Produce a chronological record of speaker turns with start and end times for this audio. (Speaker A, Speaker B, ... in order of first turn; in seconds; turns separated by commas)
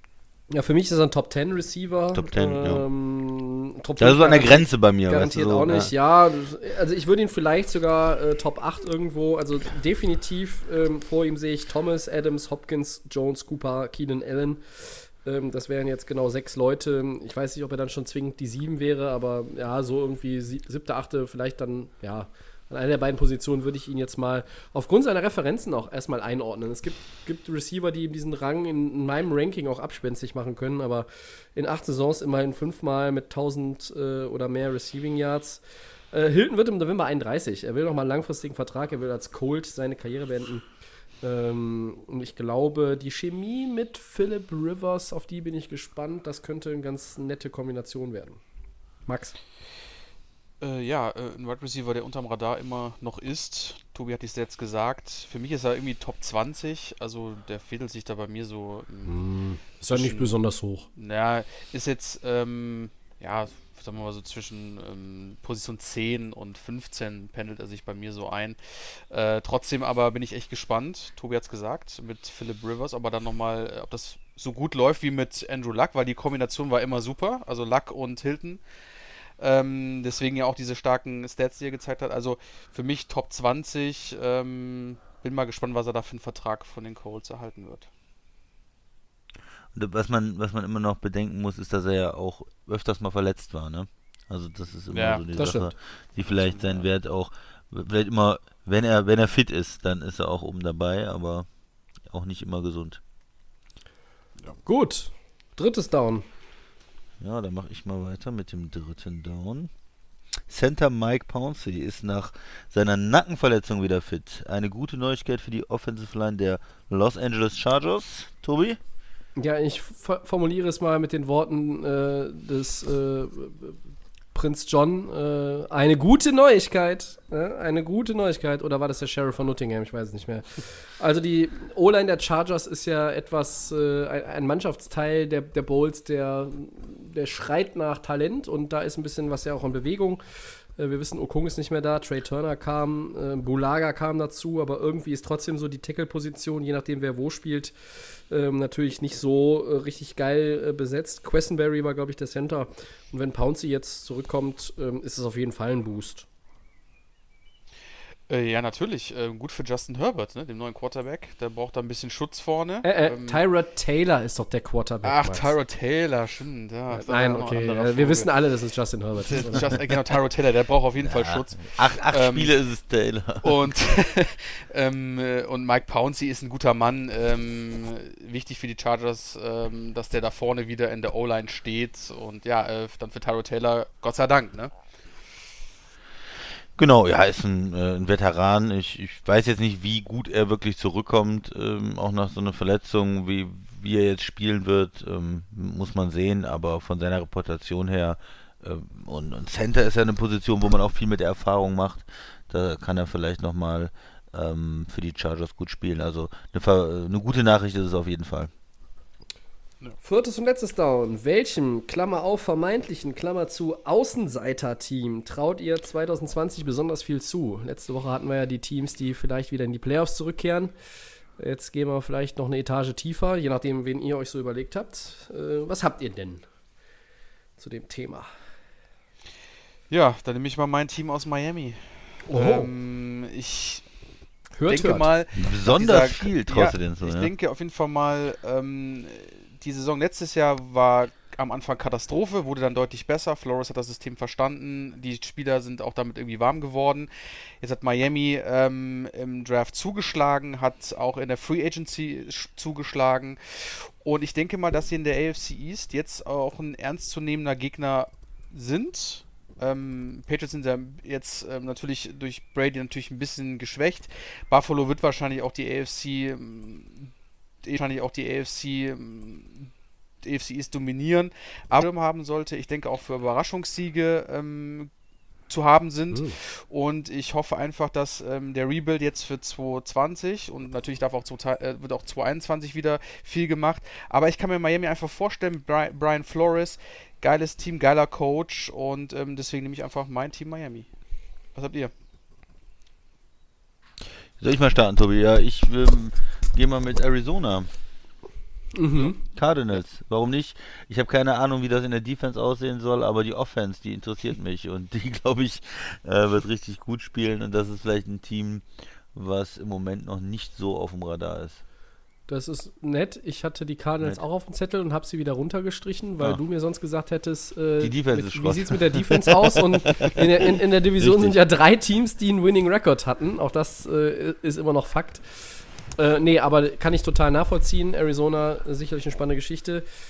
Speaker A: 0.5-14.6, Speaker B: 2.1-2.9, Speaker B: 4.0-5.9, Speaker A: 15.2-35.6, Speaker A: 36.1-40.6, Speaker A: 41.2-48.4, Speaker A: 49.1-49.4, Speaker C: 50.6-59.1, Speaker A: 59.1-60.9, Speaker C: 59.9-60.4, Speaker C: 61.0-78.6, Speaker C: 79.4-87.9, Speaker B: 89.7-101.5, Speaker C: 94.9-95.4, Speaker A: 95.4-95.7, Speaker C: 96.3-96.8, Speaker B: 102.1-103.0, Speaker A: 104.7-106.2, Speaker B: 107.2-109.7, Speaker B: 110.5-118.8, Speaker A: 119.4-123.8, Speaker A: 124.3-140.2, Speaker A: 140.8-147.7, Speaker A: 148.3-156.3, Speaker C: 158.3-163.4, Speaker A: 162.8-165.5, Speaker C: 165.0-168.3, Speaker A: 166.9-169.7, Speaker C: 169.2-172.5, Speaker B: 171.0-173.5, Speaker C: 173.4-184.7, Speaker B: 186.8-208.5, Speaker A: 210.0-220.7, Speaker A: 221.4-226.4, Speaker A: 227.6-228.3, Speaker C: 229.9-233.8, Speaker A: 232.3-232.7, Speaker A: 234.6-235.1, Speaker C: 234.7-247.1, Speaker B: 235.4-237.3, Speaker C: 247.6-267.1, Speaker C: 267.6-269.7, Speaker C: 270.2-274.9, Speaker C: 275.5-290.9, Speaker C: 291.6-291.9, Speaker B: 294.4-297.7, Speaker A: 298.7-299.2, Speaker B: 299.2-311.6, Speaker A: 312.3-329.9, Speaker B: 317.8-320.2, Speaker B: 321.0-321.4